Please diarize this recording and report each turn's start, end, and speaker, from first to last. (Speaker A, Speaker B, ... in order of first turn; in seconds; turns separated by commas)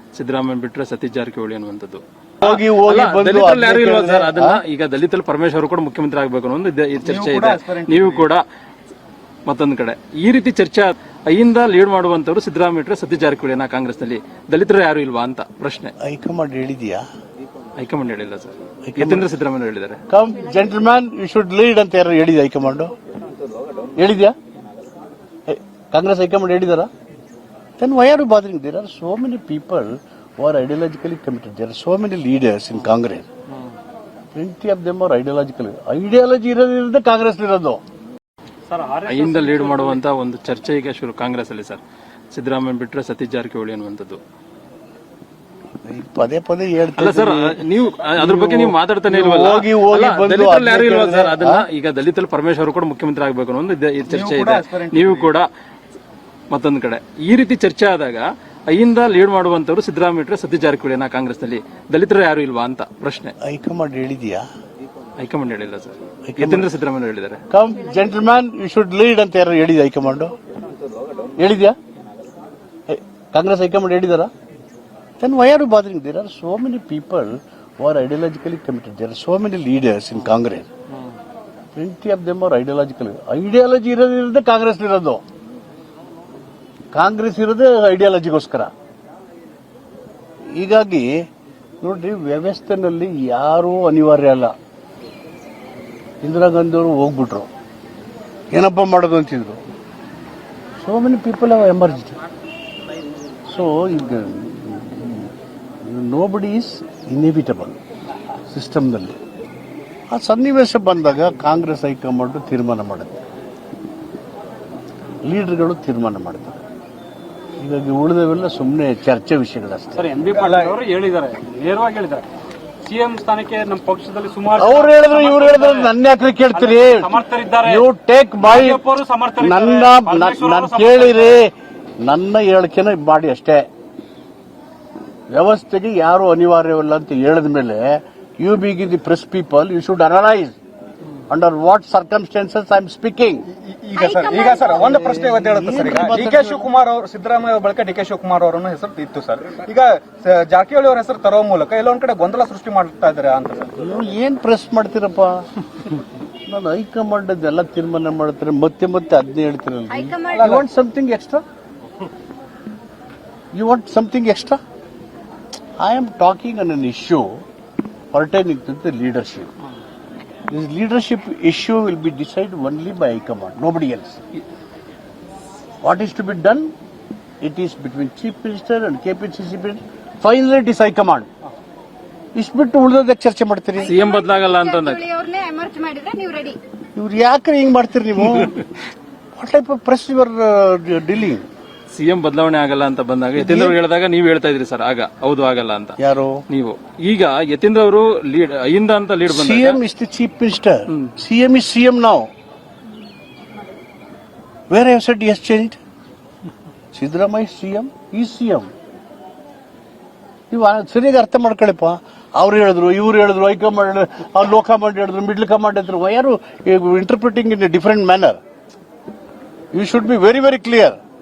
Speaker A: 0.1-8.4, Speaker B: 2.4-4.6, Speaker C: 7.0-8.3, Speaker A: 9.5-15.9, Speaker B: 16.0-17.0, Speaker A: 17.8-20.0, Speaker B: 18.9-19.3, Speaker B: 20.1-22.9, Speaker B: 24.0-24.3, Speaker B: 25.5-26.9, Speaker B: 27.8-33.3, Speaker B: 34.4-37.8, Speaker D: 38.7-40.0, Speaker A: 39.1-44.2, Speaker B: 45.9-47.6, Speaker A: 47.0-55.5, Speaker B: 48.2-51.6, Speaker C: 54.0-55.3, Speaker A: 56.5-63.3, Speaker B: 63.4-64.5, Speaker A: 65.2-67.4, Speaker B: 66.3-66.7, Speaker B: 67.5-70.3, Speaker B: 71.4-71.8, Speaker B: 72.9-74.3, Speaker B: 75.2-80.7, Speaker B: 81.8-85.2, Speaker B: 86.9-88.7, Speaker B: 90.5-91.3, Speaker B: 91.8-94.5, Speaker B: 96.2-97.5, Speaker B: 98.5-99.6, Speaker B: 100.8-102.2, Speaker B: 103.5-105.3, Speaker B: 105.8-107.8, Speaker B: 108.5-109.2, Speaker B: 110.1-113.2, Speaker B: 115.2-116.6, Speaker B: 117.6-120.1, Speaker D: 120.0-122.2, Speaker C: 120.3-120.8, Speaker D: 122.8-125.9, Speaker B: 124.6-128.8, Speaker D: 126.5-127.9, Speaker D: 128.4-131.4, Speaker B: 129.4-133.7, Speaker B: 135.3-140.6, Speaker B: 141.3-143.5, Speaker C: 143.5-153.8, Speaker E: 143.9-145.0, Speaker B: 144.8-146.7, Speaker B: 153.8-155.9, Speaker B: 156.5-161.4, Speaker E: 159.9-160.6, Speaker C: 160.3-160.7, Speaker B: 163.5-164.6, Speaker B: 165.8-167.4, Speaker B: 168.1-169.5, Speaker B: 170.5-174.2, Speaker B: 175.8-176.7, Speaker B: 177.4-181.3, Speaker B: 182.3-184.0, Speaker E: 183.8-186.6, Speaker A: 183.8-185.1, Speaker B: 187.0-188.6, Speaker B: 189.4-191.5, Speaker A: 191.9-196.0, Speaker B: 193.4-193.8, Speaker B: 196.0-196.4, Speaker A: 196.5-199.8, Speaker B: 199.3-202.3, Speaker B: 204.7-205.8, Speaker B: 206.9-208.7, Speaker B: 210.5-218.4, Speaker B: 219.7-221.0